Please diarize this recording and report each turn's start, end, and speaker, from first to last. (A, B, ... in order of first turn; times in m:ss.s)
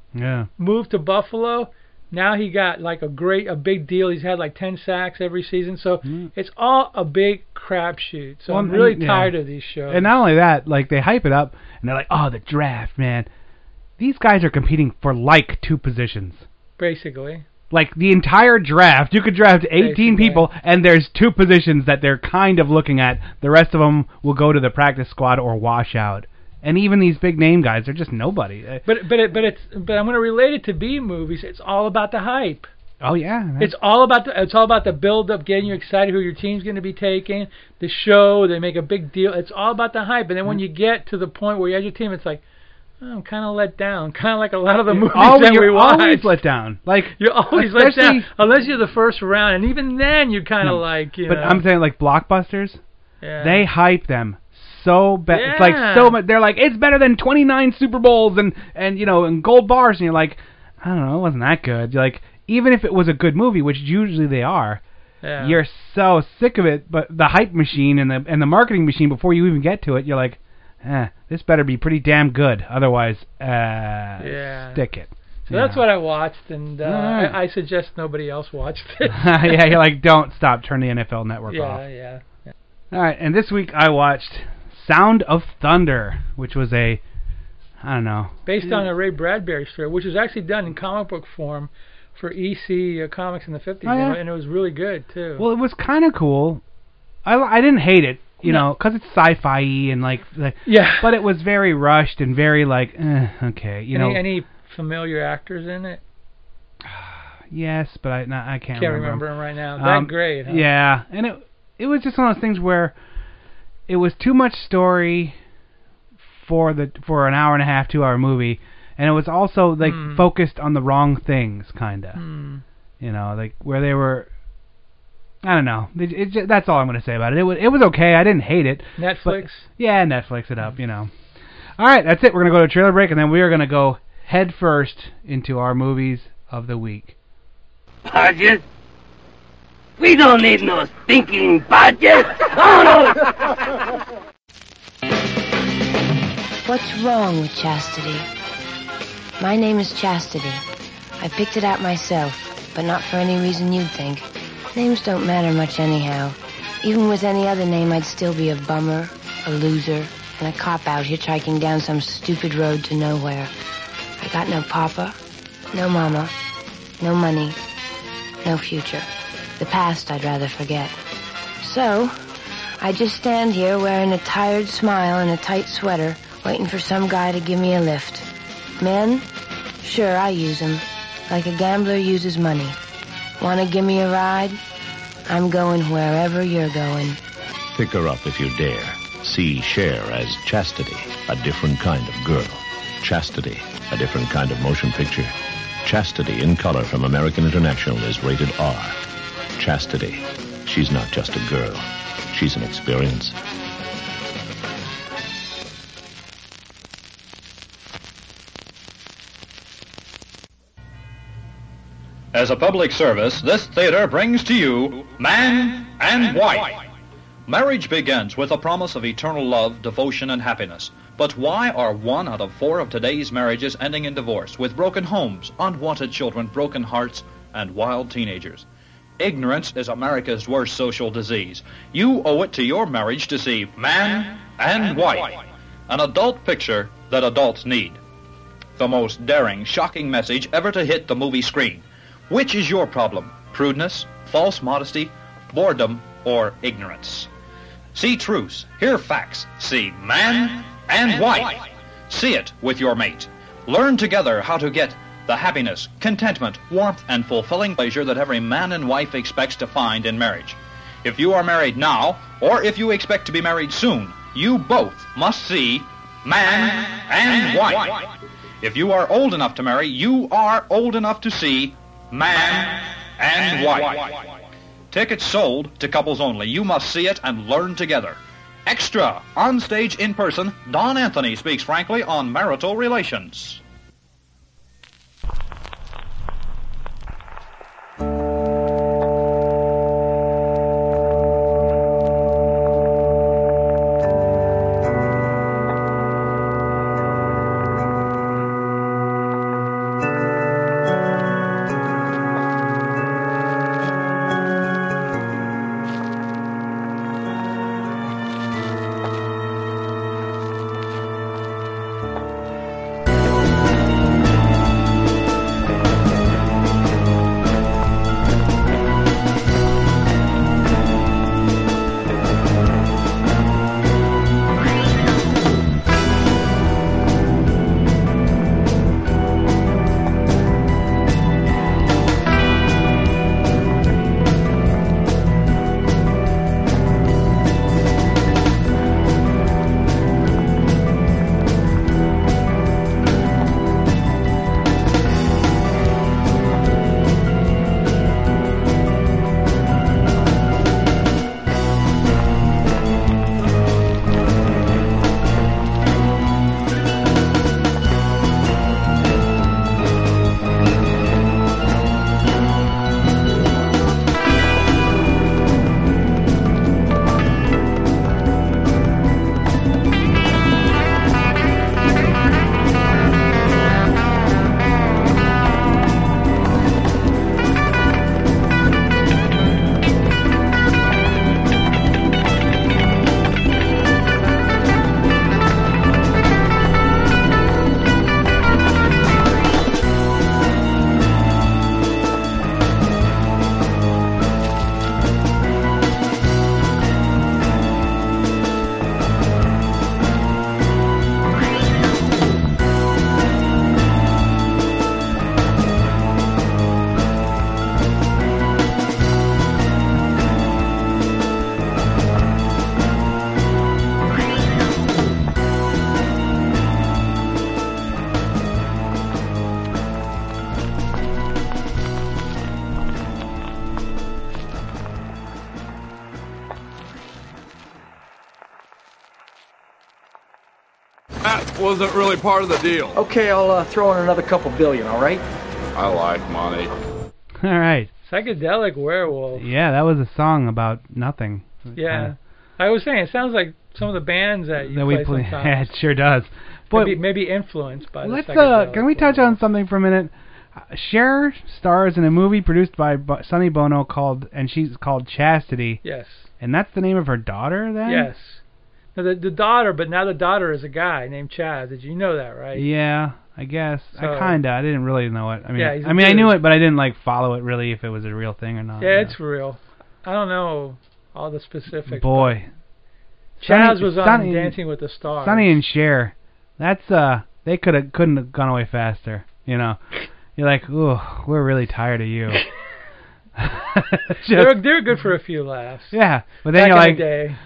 0:00.1-0:00.5 A
0:00.6-0:10.2 B
0:06.0-0:06.3 A
0:08.5-0:09.3 A
0:09.9-0:13.3 A
0:14.0-0:16.4 A
0:16.8-0:17.4 B
0:17.7-0:28.8 A
0:19.8-0:20.5 B
0:28.8-0:32.7 B
0:33.0-0:33.7 A
0:33.6-0:42.4 B
0:43.0-0:46.4 B
0:44.9-0:48.3 A
0:47.2-0:51.6 B
0:50.6-0:52.8 A
0:53.2-0:53.6 B
0:53.4-1:04.8 A
0:55.3-0:56.2 B
1:05.2-1:05.6 B
1:05.4-1:15.8 A
1:14.2-1:14.8 B
1:15.5-1:19.8 B
1:16.8-1:17.4 A
1:19.1-1:21.8 A
1:21.5-1:22.5 B
1:22.9-1:27.0 A
1:27.8-1:28.8 A
1:28.4-1:35.4 B
1:33.8-1:34.2 A
1:35.4-1:36.6 A
1:37.2-1:44.2 A
1:38.4-1:38.7 B
1:40.6-1:41.2 B
1:43.9-1:46.0 B
1:46.8-1:49.2 A
1:48.7-1:50.7 B
1:49.8-1:52.9 A
1:53.9-1:55.3 A
1:56.3-2:02.2 A
1:59.8-2:00.2 B
2:02.1-2:02.6 B
2:03.0-2:04.3 A
2:05.4-2:11.1 A
2:09.0-2:09.7 B
2:11.8-2:17.1 A
2:18.1-2:18.6 C
2:20.0-2:23.3 C
2:26.6-2:28.3 D
2:29.4-2:30.6 D
2:31.2-2:43.5 D
2:44.2-2:45.2 D
2:45.7-2:46.3 D
2:47.0-2:47.6 D
2:48.4-2:51.0 D
2:51.6-2:52.1 D
2:52.8-2:58.3 D
2:58.8-2:59.2 D
2:59.8-3:02.8 D
3:03.4-3:04.6 D
3:05.3-3:07.2 D
3:07.7-3:19.0 E
3:19.6-3:23.4 E
3:32.3-3:36.8 F
3:37.5-3:48.6 F
3:49.2-3:58.0 F
3:58.8-4:07.3 F
4:07.9-4:34.3 F
4:34.9-4:43.6 F
7:11.2-7:13.0 G
7:13.0-7:15.2 H
7:15.7-7:16.7 G
7:17.4-7:17.9 A
7:18.0-7:19.5 B
7:19.4-7:22.1 A
7:21.8-7:25.7 B
7:24.6-7:27.0 A
7:26.7-7:29.4 B
7:28.0-7:35.8 A
7:35.8-7:36.3 B
7:36.4-7:38.1 A
7:37.8-7:38.4 B
7:38.9-7:42.7 B
7:42.5-7:49.1 A
7:44.0-7:44.4 B
7:45.6-7:46.4 B
7:48.8-7:52.4 B
7:51.9-7:52.5 A
7:53.4-7:54.6 A
7:53.4-7:55.6 B
7:55.2-7:59.8 A
8:00.4-8:02.4 A
8:03.4-8:04.6 A
8:04.3-8:05.9 B
8:05.9-8:07.1 A
8:06.5-8:07.4 B